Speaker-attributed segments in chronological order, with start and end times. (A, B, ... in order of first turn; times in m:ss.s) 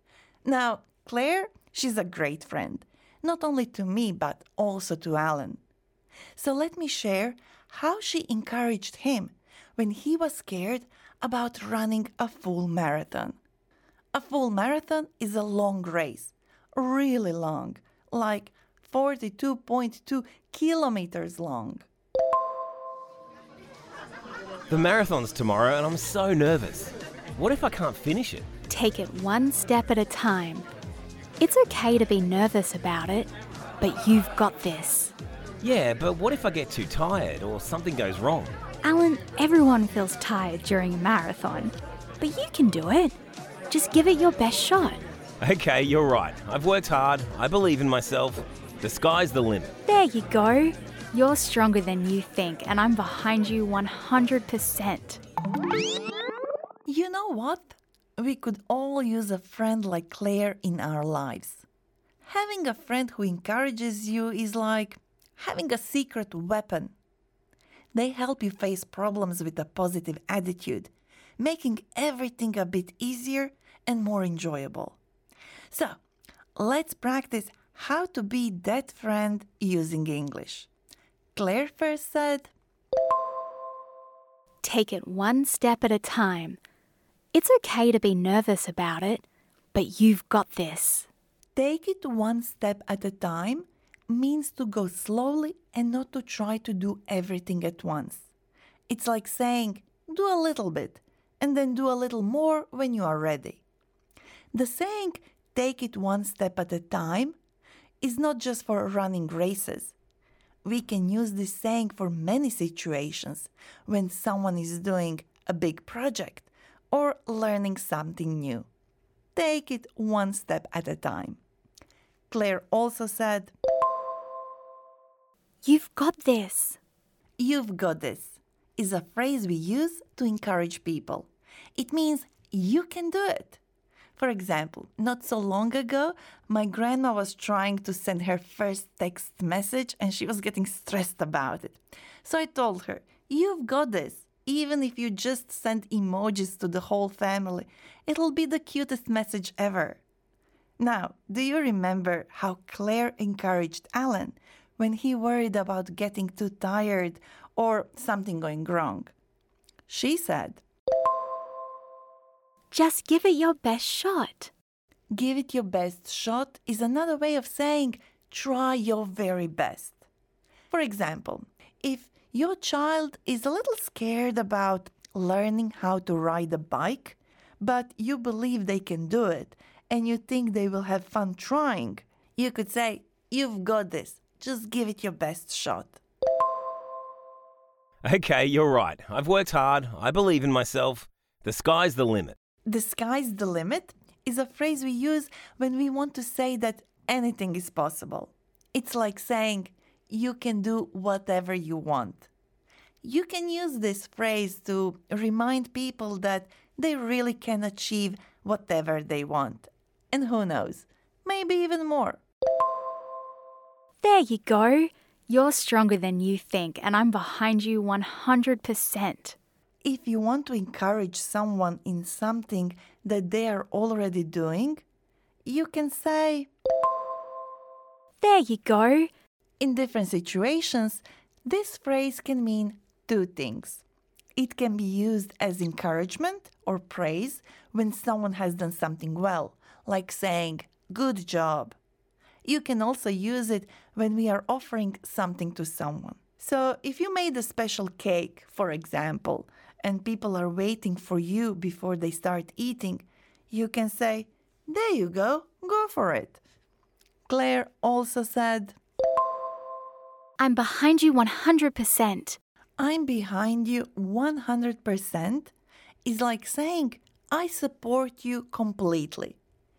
0:00.4-0:05.6 A
0:06.4-0:13.4 A
0:14.1-0:21.8 A
0:24.7-0:28.5 B
0:28.7-0:30.7 C
0:31.4-0:35.1 C
0:35.6-0:38.5 B
0:38.8-0:43.2 C
0:43.7-0:45.0 C
0:45.4-0:49.7 B
0:49.8-0:55.2 C
0:56.9-1:01.6 A
1:02.2-1:06.9 A
1:07.9-1:15.0 A
1:15.7-1:16.0 A
1:16.6-1:20.7 A
1:21.3-1:22.5 A
1:24.6-1:26.6 C
1:27.3-1:31.1 C
1:31.6-1:38.3 A
1:38.9-1:43.6 A
1:44.5-1:47.4 A
1:48.0-1:49.9 A
1:50.6-1:58.7 A
1:59.4-2:01.4 A
2:02.3-2:03.5 A
2:05.6-2:06.8 C
2:07.4-2:13.6 A
2:14.2-2:30.0 A
2:30.8-2:39.1 A
2:39.9-2:40.6 A
2:42.7-2:44.5 C
2:45.1-2:50.0 A
2:50.7-3:06.0 A
3:08.0-3:12.4 B
3:12.7-3:22.3 A
3:23.0-3:32.2 A
3:34.0-3:39.4 C
3:39.8-3:44.8 A
3:45.4-3:46.5 A
3:48.2-3:49.1 C
3:49.6-3:53.8 A
3:54.4-4:01.8 A
4:02.4-4:16.4 A
4:17.3-4:18.8 A
4:20.4-4:22.4 C
4:22.8-4:25.5 A
4:26.0-4:29.4 A